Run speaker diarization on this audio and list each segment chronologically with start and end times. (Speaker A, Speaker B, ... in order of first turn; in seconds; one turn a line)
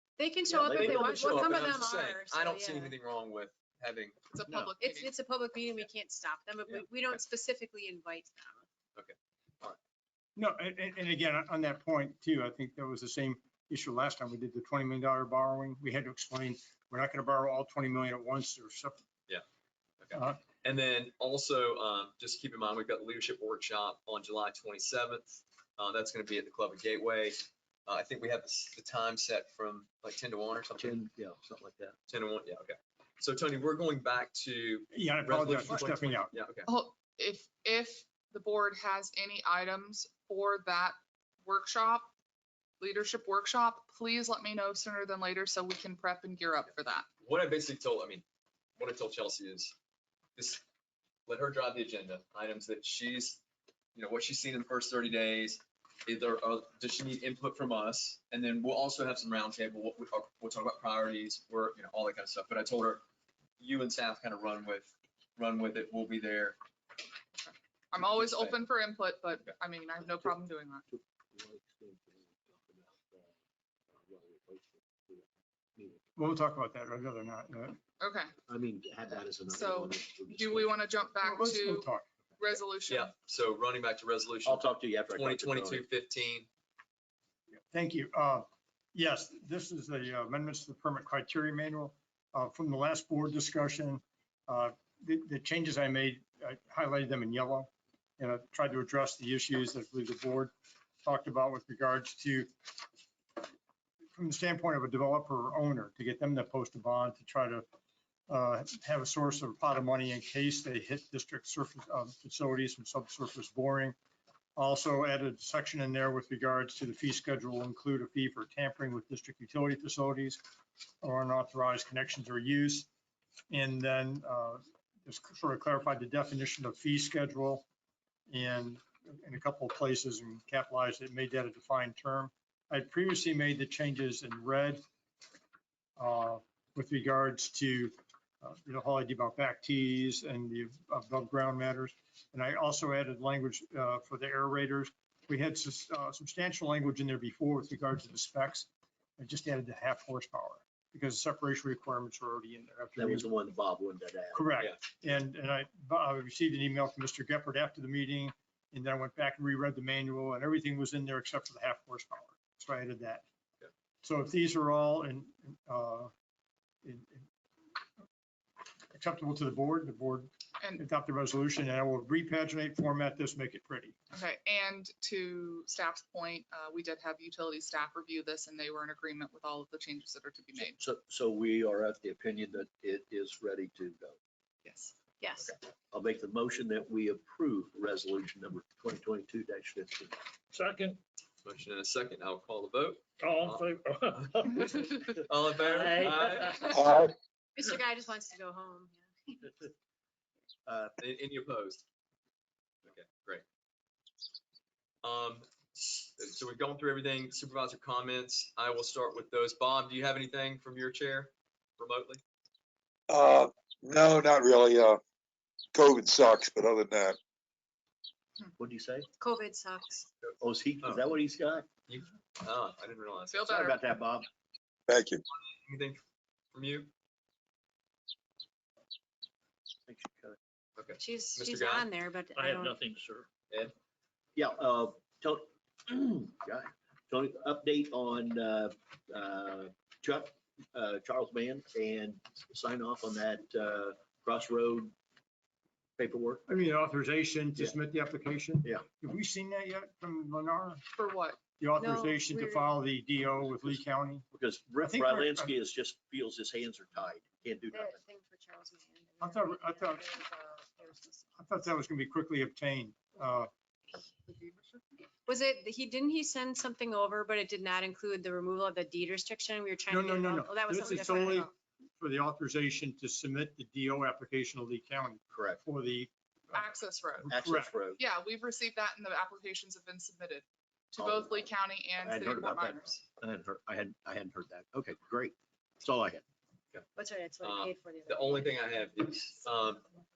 Speaker A: 0.2-3.0
Speaker B: 0.5-1.8
Speaker C: 0.7-4.3
Speaker D: 4.3-5.2
Speaker A: 4.8-8.7
Speaker C: 6.7-7.2
Speaker C: 8.9-9.8
Speaker E: 10.4-19.0
Speaker C: 20.0-31.0
Speaker E: 20.1-20.4
Speaker B: 30.8-32.0
Speaker C: 32.1-36.7
Speaker E: 34.9-36.3
Speaker D: 36.7-42.1
Speaker D: 42.8-47.1
Speaker C: 47.2-48.2
Speaker C: 48.8-49.8
Speaker C: 50.4-50.6
Speaker C: 51.3-53.4
Speaker C: 54.0-63.0
Speaker C: 63.6-66.6
Speaker D: 67.4-70.8
Speaker C: 68.0-68.6
Speaker B: 70.9-73.3
Speaker B: 73.9-76.1
Speaker E: 76.2-77.8
Speaker D: 78.0-78.3
Speaker B: 78.5-80.8
Speaker D: 79.5-83.1
Speaker E: 81.2-82.1
Speaker C: 82.9-86.5
Speaker B: 84.5-85.9
Speaker E: 87.7-100.5
Speaker E: 101.0-102.5
Speaker E: 104.2-107.7
Speaker E: 108.3-114.0
Speaker E: 114.6-120.4
Speaker E: 121.0-122.9
Speaker E: 123.5-127.7
Speaker E: 128.3-134.8
Speaker E: 136.0-153.3
Speaker B: 153.0-154.5
Speaker E: 154.3-163.2
Speaker E: 164.0-166.1
Speaker E: 166.8-167.3
Speaker E: 168.9-174.0
Speaker D: 174.1-180.8
Speaker B: 180.6-184.2
Speaker D: 184.7-185.0
Speaker A: 185.2-185.5
Speaker B: 185.4-190.2
Speaker F: 190.5-191.0
Speaker C: 191.4-196.9
Speaker F: 193.2-196.7
Speaker G: 196.7-197.1
Speaker A: 197.6-199.7
Speaker B: 200.7-201.0
Speaker C: 201.0-201.8
Speaker C: 202.9-203.4
Speaker C: 205.0-212.2
Speaker G: 213.1-215.0
Speaker G: 215.7-217.2
Speaker B: 218.6-219.1
Speaker A: 219.2-220.1
Speaker B: 220.4-221.7
Speaker C: 220.8-221.1
Speaker C: 221.9-223.6
Speaker D: 223.3-223.8
Speaker B: 223.5-224.3
Speaker G: 224.9-225.2
Speaker C: 225.5-226.0
Speaker C: 226.5-226.9
Speaker B: 229.9-230.4
Speaker C: 230.8-231.9
Speaker A: 231.0-232.8
Speaker F: 232.4-233.3
Speaker B: 234.4-244.9
Speaker B: 246.0-246.4
Speaker E: 246.5-250.8
Speaker D: 250.9-251.4
Speaker E: 251.6-254.3
Speaker A: 251.8-252.8
Speaker B: 254.3-258.0
Speaker E: 254.8-255.5
Speaker A: 257.7-261.3
Speaker E: 259.2-260.1
Speaker E: 261.4-263.5
Speaker D: 264.3-264.8
Speaker A: 265.3-271.5
Speaker E: 269.9-276.7
Speaker D: 270.9-271.2
Speaker B: 275.3-275.6
Speaker D: 276.5-277.3
Speaker E: 277.2-277.8
Speaker B: 277.3-278.0
Speaker D: 278.0-283.1
Speaker B: 281.0-281.5
Speaker B: 282.0-286.2
Speaker A: 286.9-288.7
Speaker C: 287.4-289.9